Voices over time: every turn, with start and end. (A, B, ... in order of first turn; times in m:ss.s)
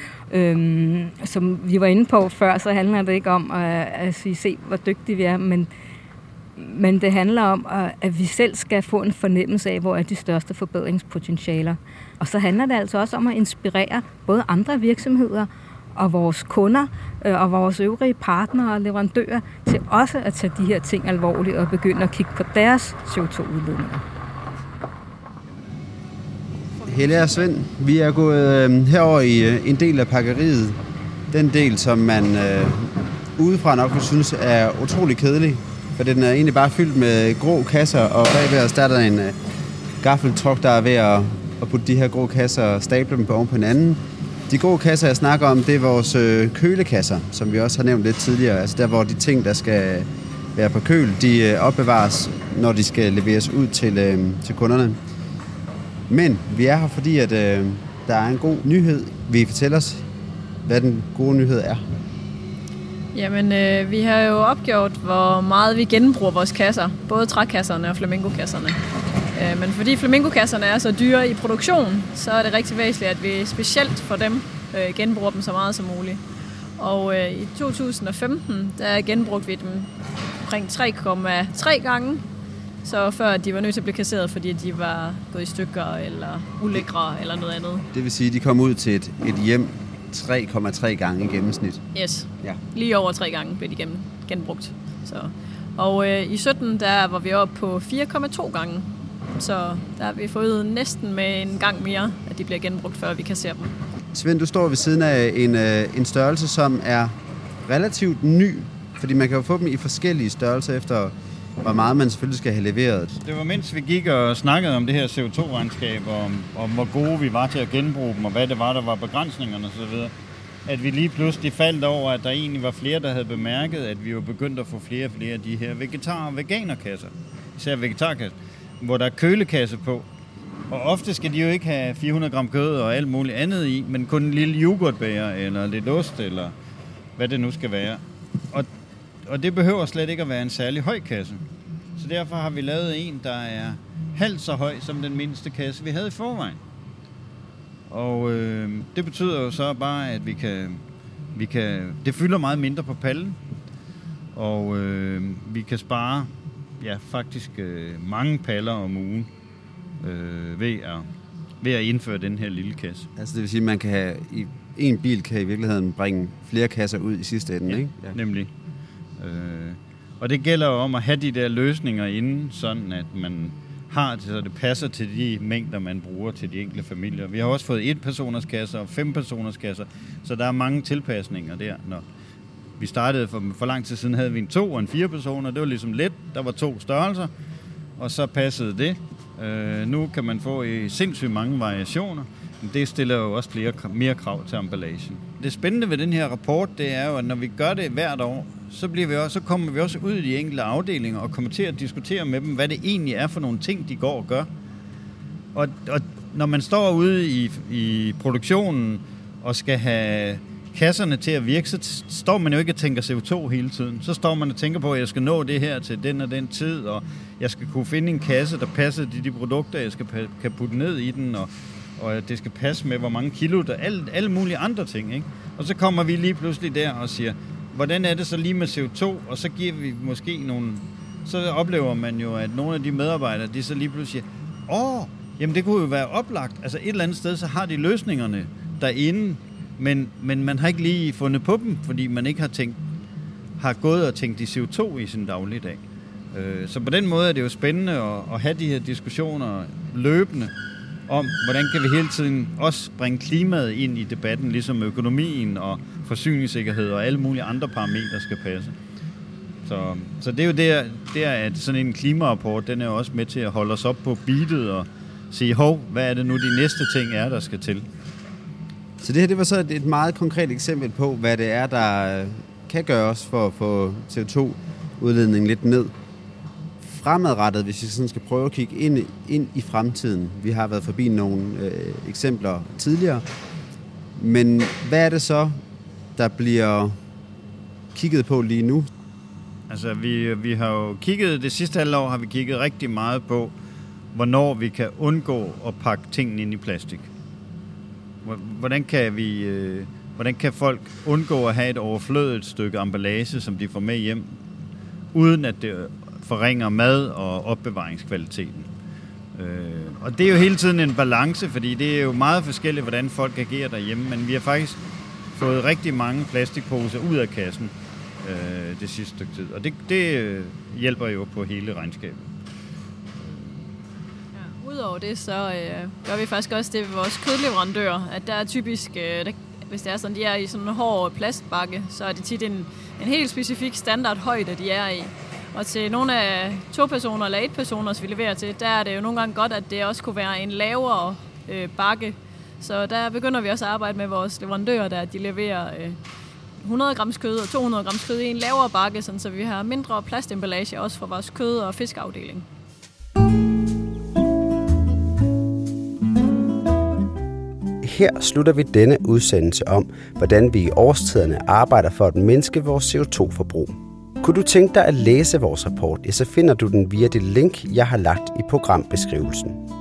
0:00.3-0:05.7 A
0:06.6-0:24.0 A
0:26.8-0:27.5 B
0:26.9-0:30.8 C
0:31.3-0:39.4 C
0:40.0-0:55.0 C
0:56.1-1:00.1 C
1:00.6-1:01.8 C
1:03.1-1:16.2 B
1:16.8-1:19.9 B
1:20.4-1:22.2 B
1:22.8-1:27.9 B
1:27.9-1:31.8 C
1:31.9-1:43.7 B
1:44.1-1:47.1 C
1:47.7-1:53.2 C
1:53.2-2:00.1 D
2:00.7-2:10.0 D
2:10.7-2:16.5 D
2:17.2-2:18.7 D
2:19.2-2:21.4 D
2:22.0-2:26.6 D
2:27.9-2:30.8 D
2:31.4-2:33.4 D
2:34.3-2:39.3 D
2:40.0-2:41.1 D
2:41.6-2:43.1 D
2:43.2-2:48.2 C
2:47.7-2:48.5 D
2:49.2-3:02.0 D
3:02.8-3:07.3 D
3:08.0-3:24.5 D
3:25.6-4:02.8 D
4:03.6-4:10.5 D
4:11.1-4:18.7 D
4:19.6-4:27.9 D
4:29.0-4:35.9 C
4:36.8-4:43.2 C
4:44.2-4:45.6 C
4:46.2-4:47.0 C
4:47.9-4:48.9 C
4:49.7-4:53.5 D
4:54.1-4:57.1 D
4:58.2-5:04.3 D
5:05.1-5:08.7 D
5:09.4-5:14.8 D
5:15.3-5:22.3 D
5:23.2-5:23.7 D
5:24.4-5:46.0 B
5:46.6-5:52.5 B
5:57.8-6:09.6 E